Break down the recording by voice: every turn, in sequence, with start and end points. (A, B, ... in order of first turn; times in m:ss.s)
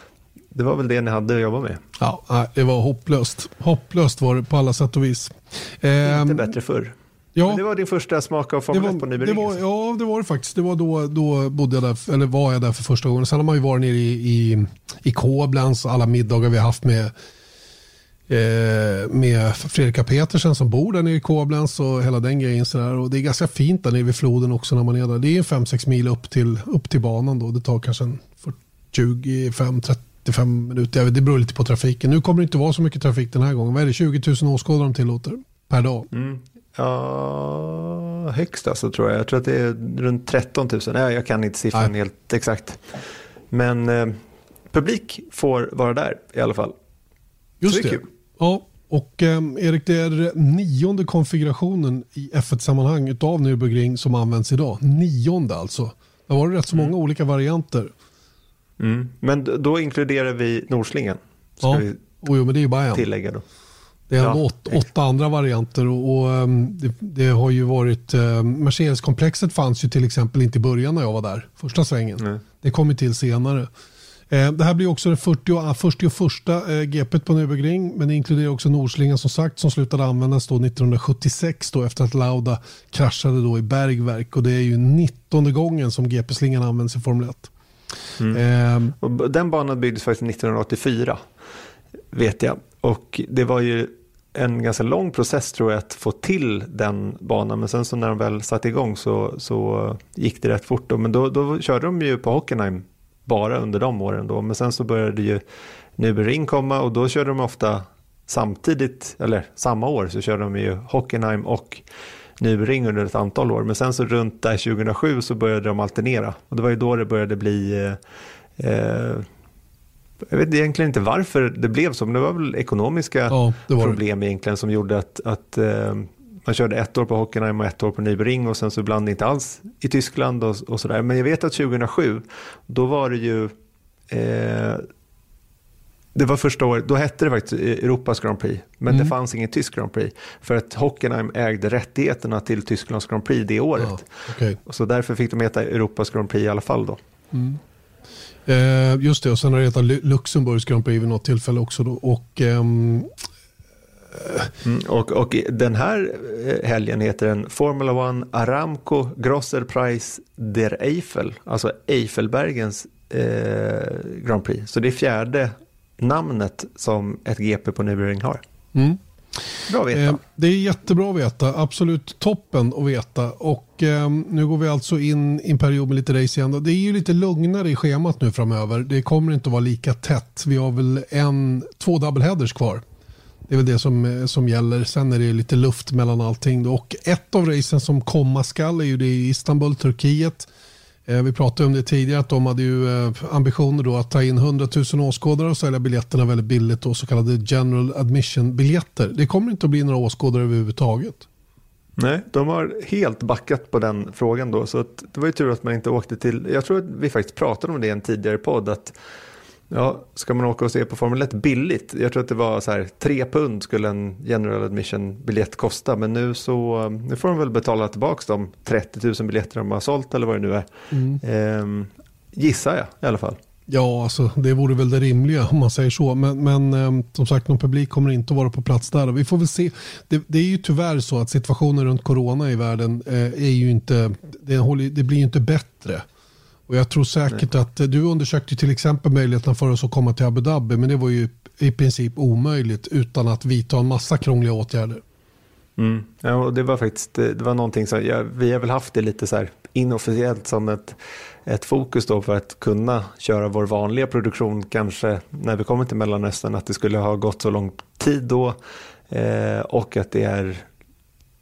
0:00.5-0:01.8 A
0:02.0-0:06.5 B
0:06.0-0:09.6 A
0:07.4-0:07.6 B
0:08.7-0:17.1 B
0:18.3-0:36.1 B
0:36.1-0:43.0 A
0:43.5-0:44.2 A
0:44.7-0:46.8 A
0:47.6-0:57.9 B
0:47.6-0:48.1 A
0:58.8-1:02.0 A
1:01.6-1:03.0 B
1:02.9-1:03.4 A
1:04.1-1:13.7 B
1:04.2-1:04.8 A
1:14.3-1:27.5 B
1:28.3-1:28.9 B
1:29.0-1:31.2 A
1:32.1-1:45.4 A
1:46.0-1:51.8 A
1:52.4-1:58.0 A
1:58.6-1:59.3 A
2:00.3-2:13.5 A
2:03.3-2:04.0 B
2:14.1-2:14.9 A
2:16.2-2:24.1 A
2:23.8-2:24.6 B
2:24.6-2:27.0 A
2:27.3-2:27.6 B
2:28.5-2:33.1 B
2:34.1-2:34.5 B
2:34.6-2:48.4 A
2:48.7-2:49.0 B
2:49.7-2:50.2 A
2:49.9-3:02.8 B
3:03.5-3:10.5 B
3:11.1-3:21.3 B
3:22.0-3:29.0 A
3:29.7-3:40.7 A
3:40.9-3:41.2 B
3:41.2-3:43.4 A
3:43.7-3:56.0 B
3:56.7-4:05.0 B
4:05.8-4:18.6 A
4:19.1-4:20.7 A